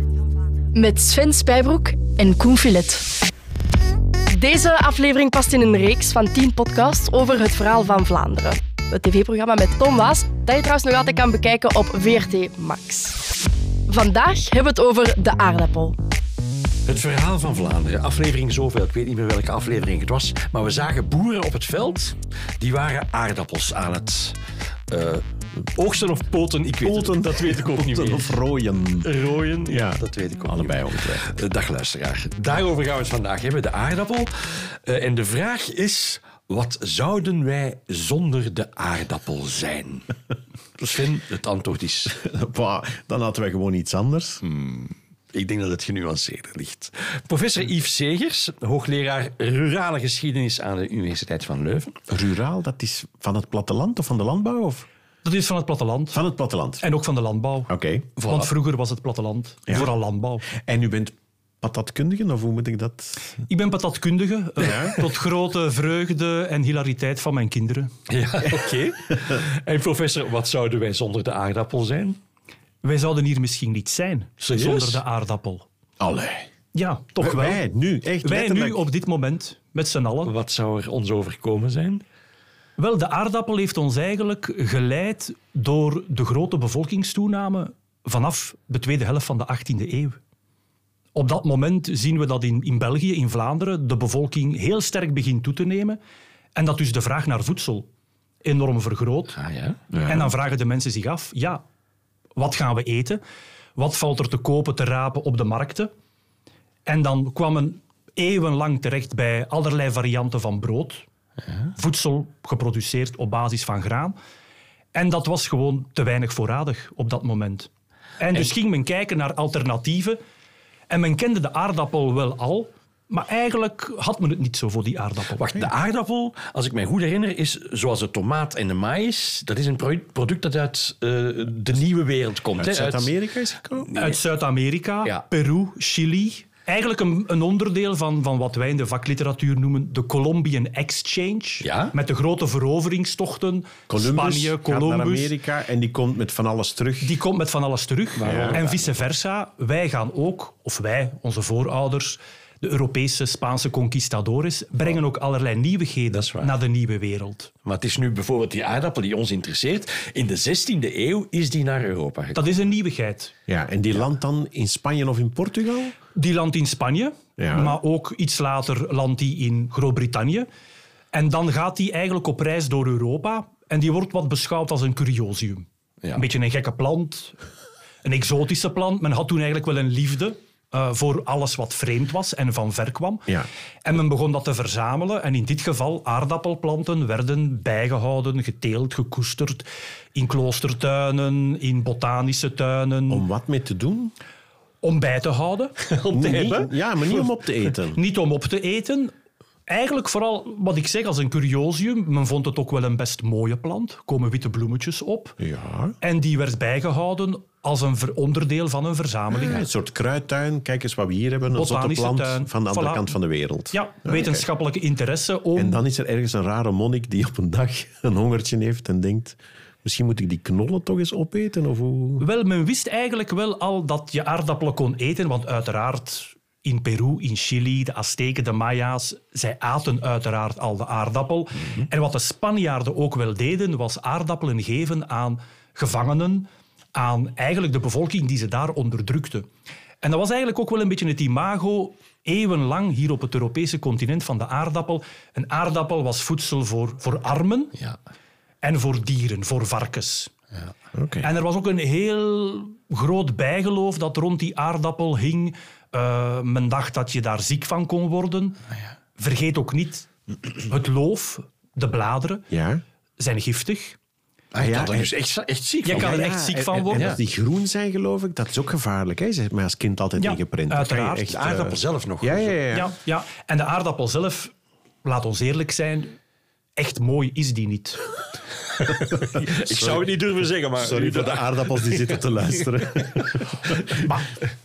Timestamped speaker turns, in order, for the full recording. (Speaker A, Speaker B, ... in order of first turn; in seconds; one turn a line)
Speaker A: 0.7-3.1
Speaker A: 4.3-13.3
Speaker A: 13.9-16.0
Speaker B: 16.9-24.4
Speaker B: 24.9-25.2
Speaker B: 25.8-28.4
Speaker C: 26.8-29.1
Speaker B: 29.0-40.1
Speaker C: 29.7-31.4
Speaker B: 40.8-42.1
Speaker C: 42.1-44.4
Speaker B: 44.4-52.0
Speaker C: 52.1-54.9
Speaker D: 55.2-56.2
Speaker C: 56.1-56.8
Speaker D: 56.8-57.7
Speaker C: 57.7-58.1
Speaker B: 58.2-58.5
Speaker D: 58.2-60.5
Speaker C: 60.5-63.3
Speaker D: 63.5-67.9
Speaker C: 64.6-65.0
Speaker B: 68.1-72.2
Speaker D: 72.8-75.7
Speaker B: 74.4-75.0
Speaker C: 76.0-76.5
Speaker D: 76.7-77.6
Speaker C: 77.2-78.8
Speaker D: 78.2-80.3
Speaker B: 80.2-82.0
Speaker D: 82.8-90.2
Speaker D: 91.2-96.0
Speaker D: 96.5-97.9
Speaker D: 98.4-99.4
Speaker B: 99.3-99.8
Speaker C: 99.9-100.3
Speaker D: 100.1-101.6
Speaker D: 102.4-103.2
Speaker D: 103.8-105.9
Speaker D: 106.9-111.1
Speaker D: 111.8-114.2
Speaker D: 114.9-120.2
Speaker D: 120.9-125.5
Speaker B: 125.4-133.1
Speaker C: 132.6-133.9
Speaker B: 133.9-134.2
Speaker D: 133.9-145.3
Speaker B: 141.6-141.9
Speaker C: 143.9-147.2
Speaker D: 147.0-157.5
Speaker B: 148.2-149.0
Speaker C: 148.2-148.6
Speaker B: 156.1-156.5
Speaker B: 157.7-162.5
Speaker D: 162.3-163.3
Speaker C: 163.5-166.0
Speaker D: 166.2-170.5
Speaker C: 167.4-167.8
Speaker D: 171.1-177.4
Speaker D: 178.0-183.3
Speaker D: 183.8-193.3
Speaker C: 193.1-194.1
Speaker D: 194.8-195.8
Speaker B: 195.8-197.3
Speaker C: 196.1-198.0
Speaker D: 197.9-199.1
Speaker D: 199.7-205.4
Speaker C: 205.4-206.0
Speaker D: 206.0-209.7
Speaker C: 209.3-214.5
Speaker D: 211.5-213.1
Speaker D: 213.7-215.8
Speaker C: 215.6-222.2
Speaker D: 222.2-239.5
Speaker D: 240.0-247.8
Speaker D: 248.6-250.3
Speaker C: 250.9-251.3
Speaker D: 251.2-258.6
Speaker D: 259.2-262.5
Speaker C: 262.5-262.8
Speaker D: 263.2-264.0
Speaker B: 264.5-266.3
Speaker C: 264.6-265.1
Speaker D: 265.8-267.2
Speaker C: 265.9-272.9
Speaker B: 266.9-267.2
Speaker D: 270.2-271.3
Speaker B: 271.3-272.6
Speaker D: 272.7-276.2
Speaker D: 276.8-278.1
Speaker C: 279.0-280.1
Speaker B: 279.1-282.3
Speaker C: 280.8-284.1
Speaker D: 284.0-284.3